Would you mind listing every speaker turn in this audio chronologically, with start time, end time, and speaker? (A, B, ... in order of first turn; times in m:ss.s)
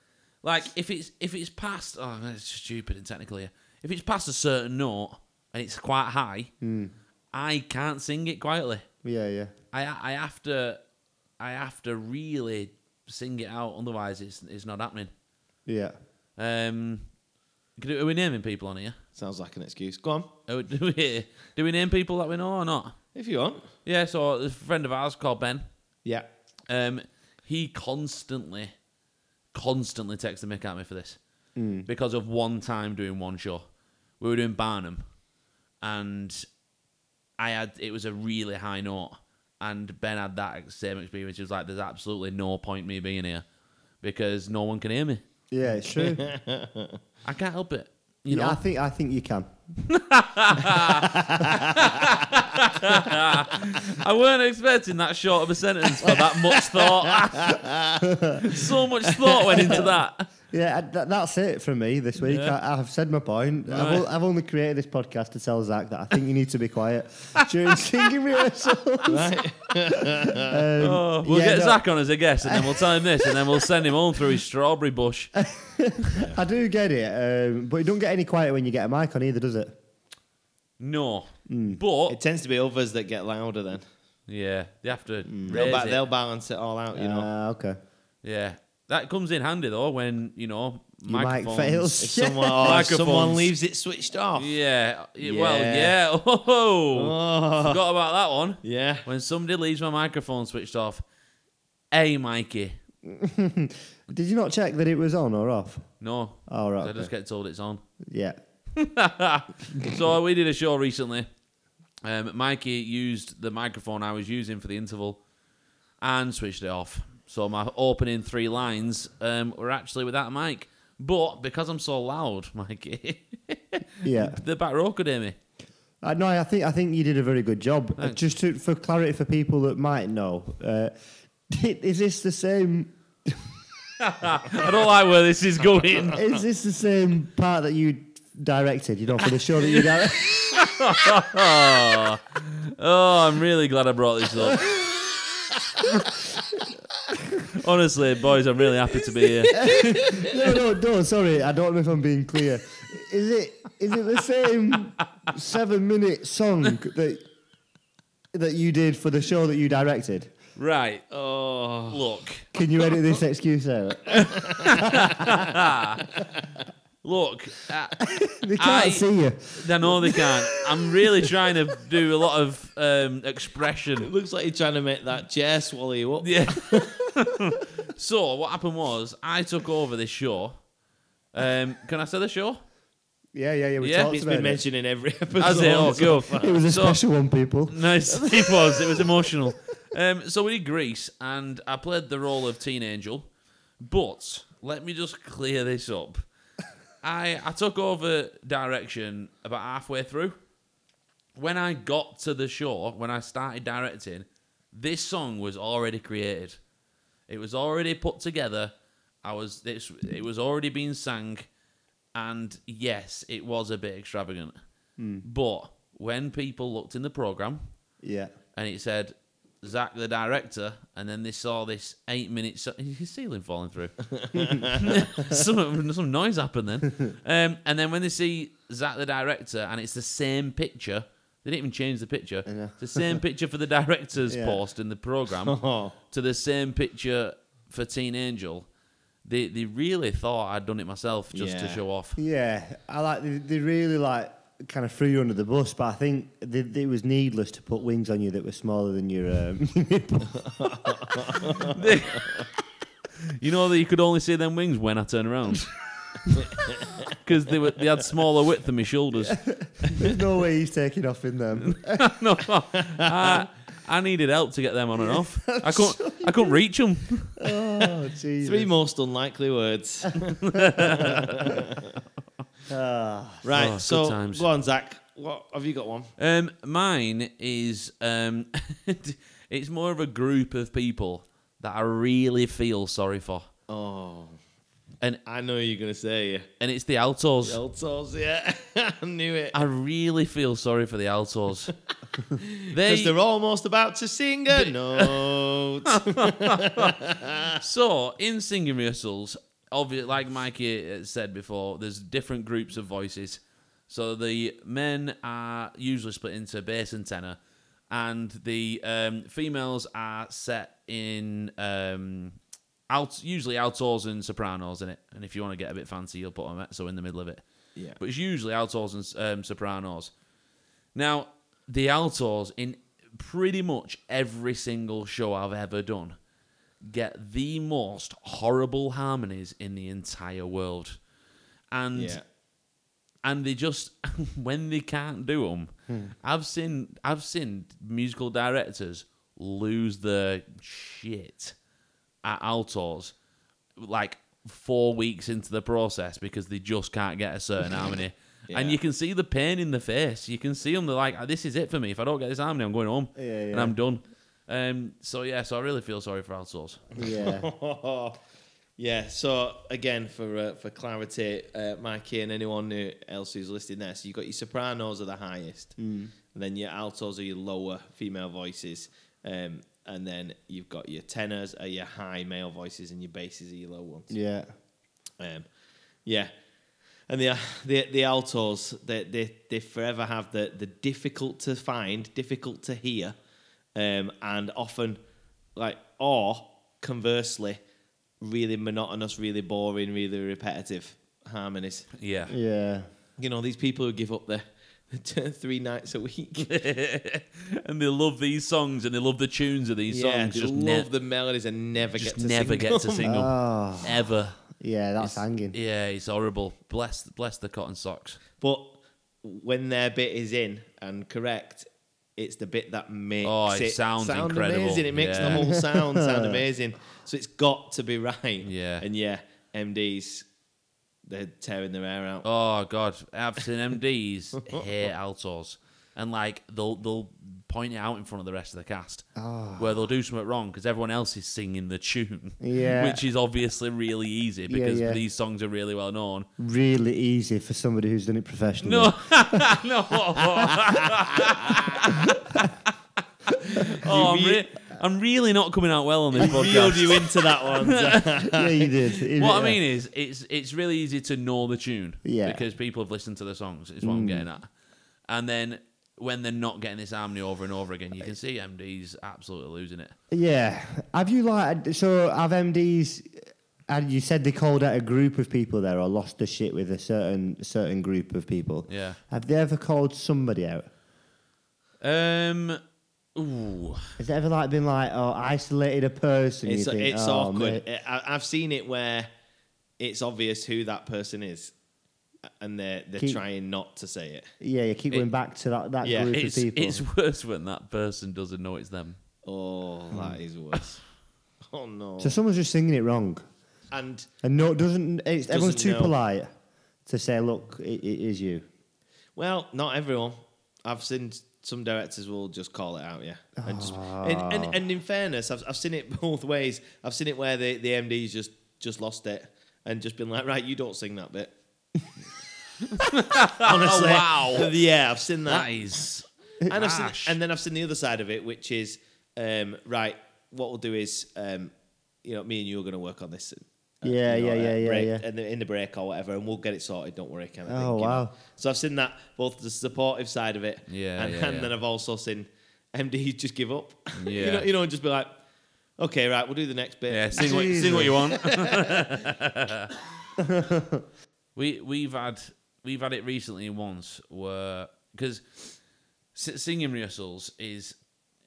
0:00.4-0:06.5 A
0:06.6-0:06.9 B
0:07.3-0:08.8 A
0:09.0-0:09.5 B
0:09.7-0:10.8 A
0:11.4-0:15.1 A
0:15.6-0:15.9 B
0:16.4-0:17.1 A
0:17.8-0:19.0 A
0:19.2-0:20.3 C
0:20.5-0:23.0 A
0:23.1-0:23.7 C
0:23.8-0:25.6 A
0:26.7-0:28.7 A
0:29.5-0:31.2 A
0:31.6-0:31.9 B
0:31.8-0:33.6 A
0:34.2-0:35.0 A
0:35.8-0:36.4 A
0:37.4-0:43.4 A
0:44.0-0:45.2 A
0:45.5-0:46.2 B
0:45.9-0:47.0 C
0:47.2-0:48.6 A
0:48.3-0:49.5 B
0:49.8-0:57.6 A
0:51.1-0:51.6 B
0:56.5-0:58.1 C
0:58.0-0:58.5 B
0:58.4-1:00.3 A
0:59.1-0:59.9 C
0:59.6-0:59.9 B
1:00.5-1:09.4 B
1:02.2-1:02.5 A
1:03.7-1:04.0 A
1:09.1-1:10.7 C
1:10.3-1:11.8 B
1:10.8-1:15.3 A
1:12.4-1:13.4 B
1:15.4-1:19.8 B
1:20.8-1:22.2 A
1:21.5-1:21.8 B
1:22.1-1:23.8 C
1:24.3-1:26.0 A
1:25.3-1:25.7 B
1:25.5-1:27.3 C
1:26.9-1:27.8 B
1:28.2-1:32.0 A
1:31.1-1:32.8 B
1:32.0-1:34.6 C
1:32.6-1:33.5 A
1:34.4-1:41.0 A
1:35.2-1:36.0 C
1:36.9-1:37.8 C
1:38.6-1:39.0 C
1:41.9-1:42.8 A
1:43.0-1:45.9 B
1:46.0-1:47.8 A
1:46.5-1:47.1 B
1:48.0-1:48.4 B
1:48.8-1:51.3 A
1:52.0-1:55.2 A
1:56.0-2:05.4 A
2:04.0-2:04.4 B
2:06.0-2:10.9 B
2:11.5-2:13.5 B
2:14.0-2:16.2 A
2:16.0-2:20.8 B
2:19.7-2:24.7 A
2:24.5-2:24.8 B
2:25.9-2:27.4 B
2:27.5-2:30.2 A
2:29.5-2:37.2 B
2:29.6-2:30.4 C
2:38.3-2:40.3 B
2:40.6-2:41.0 A
2:41.1-2:42.0 C
2:41.9-2:42.5 A
2:42.5-2:45.3 B
2:44.1-2:44.9 C
2:44.2-2:46.0 A
2:47.0-2:48.0 A
2:48.0-2:51.2 B
2:48.6-2:54.1 A
2:54.0-2:57.0 C
2:56.2-3:00.6 A
3:01.3-3:02.6 A
3:03.3-3:04.6 B
3:03.8-3:04.1 A
3:04.1-3:06.6 C
3:05.4-3:07.0 A
3:05.8-3:08.8 B
3:07.7-3:13.3 A
3:13.8-3:16.2 A
3:17.0-3:20.4 A
3:21.4-3:26.6 A
3:27.3-3:28.7 A
3:29.2-3:31.5 A
3:32.1-3:34.6 A
3:35.0-3:35.2 B
3:35.2-3:37.7 A
3:38.0-3:38.3 B
3:38.6-3:55.6 A
3:44.1-3:44.9 C
3:52.5-3:53.2 B
3:54.3-3:54.6 B
3:55.4-3:55.9 C
3:56.1-3:58.7 A
3:59.2-4:02.2 A
4:01.3-4:01.8 C
4:02.2-4:11.7 B
4:10.6-4:12.2 C
4:11.6-4:12.4 A
4:13.4-4:19.4 A
4:16.5-4:17.0 C
4:19.2-4:22.1 B
4:21.6-4:27.4 A
4:22.8-4:23.4 C
4:25.1-4:26.6 B
4:27.4-4:28.7 B
4:28.4-4:31.9 C
4:30.3-4:31.6 A
4:32.7-4:33.4 B
4:33.4-4:36.1 C
4:33.5-4:34.4 A
4:36.2-4:43.5 A
4:43.7-4:44.4 C
4:45.2-4:46.5 C
4:46.6-4:47.6 A
4:47.4-4:49.6 C
4:49.5-4:51.7 A
4:52.4-4:57.6 C
4:52.7-4:53.1 A
4:54.5-4:57.0 A
4:57.6-5:07.4 A
5:07.9-5:12.4 A
5:12.9-5:17.4 A
5:18.0-5:20.1 A
5:20.9-5:26.2 A
5:26.8-5:31.0 A
5:31.7-5:32.2 A
5:31.9-5:32.2 C
5:33.2-5:35.7 A
5:36.2-5:41.6 A
5:42.2-5:43.1 A
5:43.8-5:56.8 A
5:48.5-5:48.8 C
5:53.2-5:53.7 B
5:57.0-5:58.2 C
5:57.0-5:57.5 B
5:58.8-6:05.8 C
6:05.8-6:06.1 B
6:06.3-6:14.1 C
6:14.1-6:14.5 B
6:15.2-6:15.5 C
6:16.0-6:16.3 C
6:17.1-6:23.1 C
6:23.7-6:25.0 C
6:25.6-6:27.6 C
6:28.2-6:31.9 C
6:31.9-6:32.3 A
6:32.3-6:32.9 B
6:33.2-6:36.5 C
6:36.4-6:40.9 A
6:39.9-6:43.0 C
6:42.0-6:44.4 A
6:43.0-6:45.6 B
6:45.0-6:48.2 A
6:48.4-7:00.2 C
6:53.2-6:55.5 A
6:55.2-6:56.4 B
6:58.4-6:58.8 A
7:01.0-7:02.2 C
7:02.2-7:09.0 A
7:09.2-7:09.8 B
7:09.6-7:16.3 A
7:12.4-7:13.0 B
7:14.5-7:15.0 B
7:16.4-7:19.5 B
7:18.6-7:22.7 A
7:20.2-7:20.8 B
7:22.0-7:22.4 B
7:23.2-7:28.0 A
7:23.6-7:24.4 C
7:26.1-7:29.0 C
7:28.2-7:29.6 B
7:29.2-7:34.5 A
7:32.0-7:32.4 B
7:33.8-7:34.3 B
7:35.1-7:39.9 A
7:40.1-7:50.7 B
7:48.7-7:49.0 A
7:51.8-7:52.6 A
7:53.2-7:53.9 A
7:54.0-7:57.6 B
7:56.4-7:59.1 C
7:59.8-8:01.5 C
8:02.4-8:04.3 C
8:04.4-8:06.8 B
8:05.8-8:06.1 C
8:06.1-8:09.0 A
8:09.2-8:10.8 C
8:09.9-8:10.2 B
8:11.5-8:12.2 C
8:12.0-8:13.2 B
8:13.7-8:14.1 C
8:14.2-8:16.3 B
8:15.3-8:15.9 C
8:16.8-8:18.4 B
8:19.2-8:31.3 C
8:23.4-8:24.6 B
8:32.7-8:34.5 A
8:32.8-8:35.5 C
8:35.3-8:37.2 A
8:36.5-8:41.5 C
8:42.0-8:55.2 C
8:43.8-8:45.0 B
8:47.5-8:48.1 B
8:50.7-8:51.5 A
8:53.9-8:54.5 A
8:55.8-8:58.8 C
8:56.9-8:59.7 A
8:57.2-8:58.0 B
9:00.2-9:00.8 B
9:01.4-9:05.5 A
9:06.1-9:07.8 A